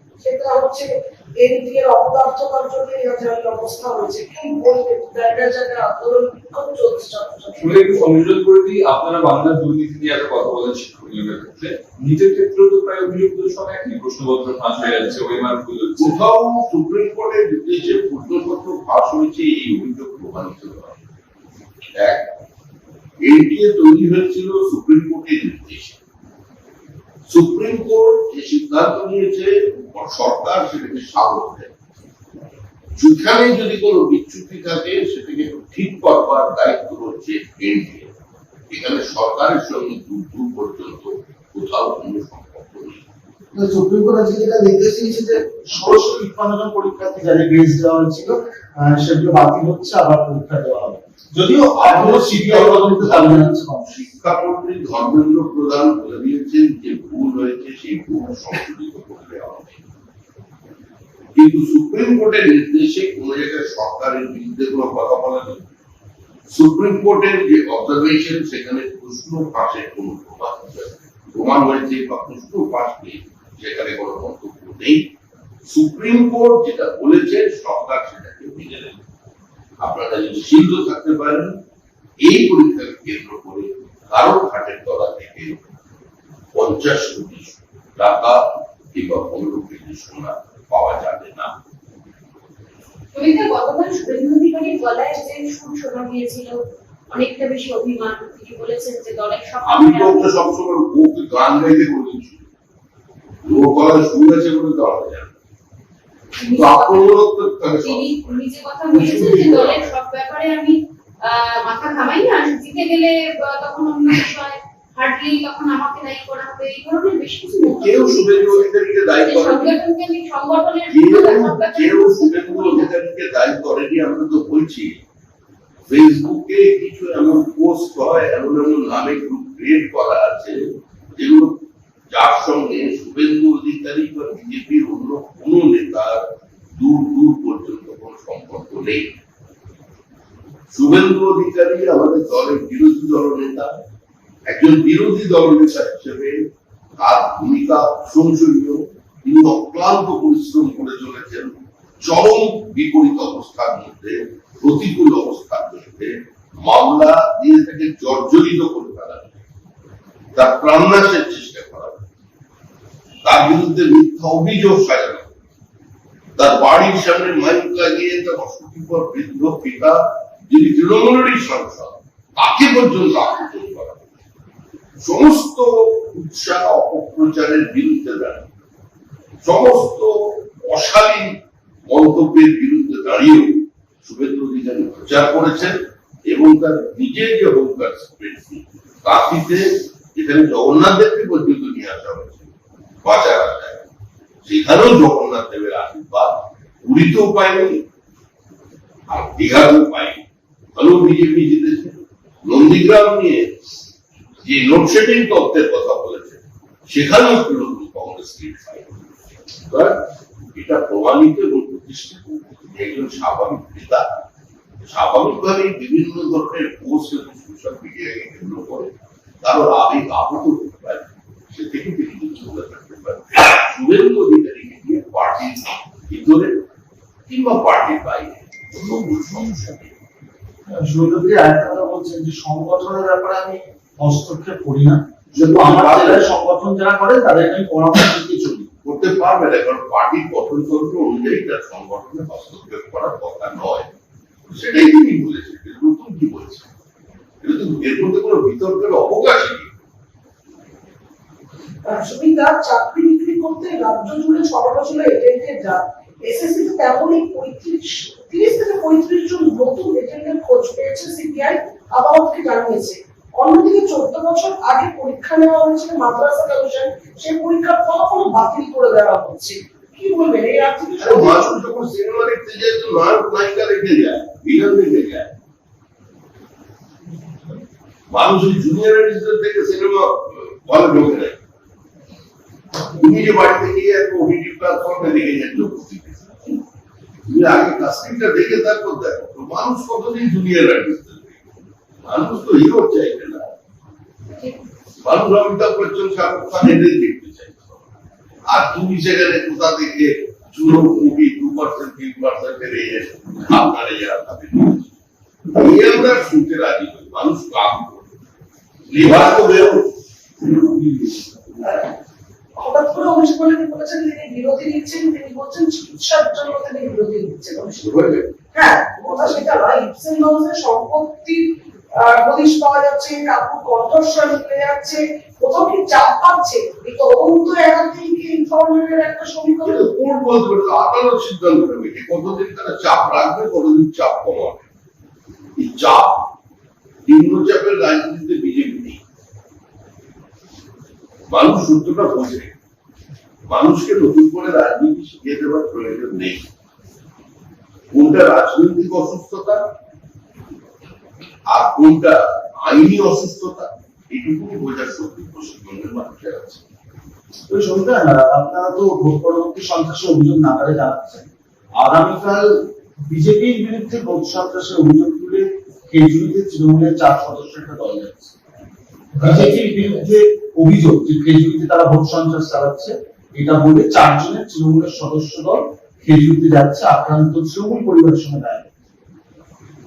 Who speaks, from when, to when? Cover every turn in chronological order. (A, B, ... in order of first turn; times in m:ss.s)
0:00.2-0:08.2 A
0:07.6-0:16.2 B
0:16.0-0:21.0 C
0:21.9-0:22.3 C
0:23.2-0:26.0 C
0:27.3-0:31.7 C
0:33.0-0:38.1 C
0:38.7-0:43.0 C
0:43.5-0:53.9 D
0:51.8-0:59.8 C
1:01.3-1:05.6 C
1:06.5-1:15.1 C
1:15.6-1:19.0 C
1:19.8-1:21.6 C
1:22.2-1:25.6 C
1:26.5-1:31.6 C
1:33.1-1:40.3 E
1:39.6-1:42.4 C
1:43.4-1:45.3 C
1:46.4-1:47.0 E
1:46.5-1:49.9 C
1:47.8-1:58.6 E
1:57.6-1:59.8 C
1:59.2-2:02.9 E
2:00.9-2:05.0 C
2:05.9-2:11.6 C
2:12.1-2:19.2 C
2:20.7-2:23.8 C
2:24.5-2:26.4 C
2:27.0-2:39.4 C
2:40.3-2:42.0 C
2:43.2-2:45.3 C
2:46.4-2:54.0 C
2:55.0-2:58.5 C
2:59.4-3:12.4 C
3:13.0-3:13.8 C
3:14.4-3:17.8 C
3:19.1-3:20.2 C
3:20.8-3:23.5 C
3:24.4-3:28.9 C
3:29.7-3:34.0 C
3:34.8-3:38.9 C
3:39.4-3:46.6 C
3:47.3-3:49.9 C
3:50.7-3:58.7 D
3:55.3-3:56.3 C
3:58.8-4:03.9 C
4:04.5-4:06.6 C
4:07.4-4:09.7 C
4:11.8-4:31.5 A
4:31.0-4:35.3 C
4:38.1-4:41.4 C
4:42.8-4:46.6 C
4:47.3-4:51.4 C
4:52.0-4:53.5 C
4:55.0-4:57.8 C
4:58.5-5:04.9 C
5:05.5-5:08.1 C
5:08.9-5:09.9 C
5:12.6-5:17.8 A
5:17.8-5:18.3 C
5:18.5-5:29.9 A
5:19.0-5:19.4 C
5:29.6-5:34.6 C
5:35.6-5:36.2 C
5:37.0-5:39.0 C
5:41.3-5:42.5 C
5:43.5-5:46.5 C
5:47.9-5:49.6 C
5:51.5-5:56.6 C
5:57.5-6:01.3 D
6:01.8-6:08.3 D
6:09.1-6:18.7 D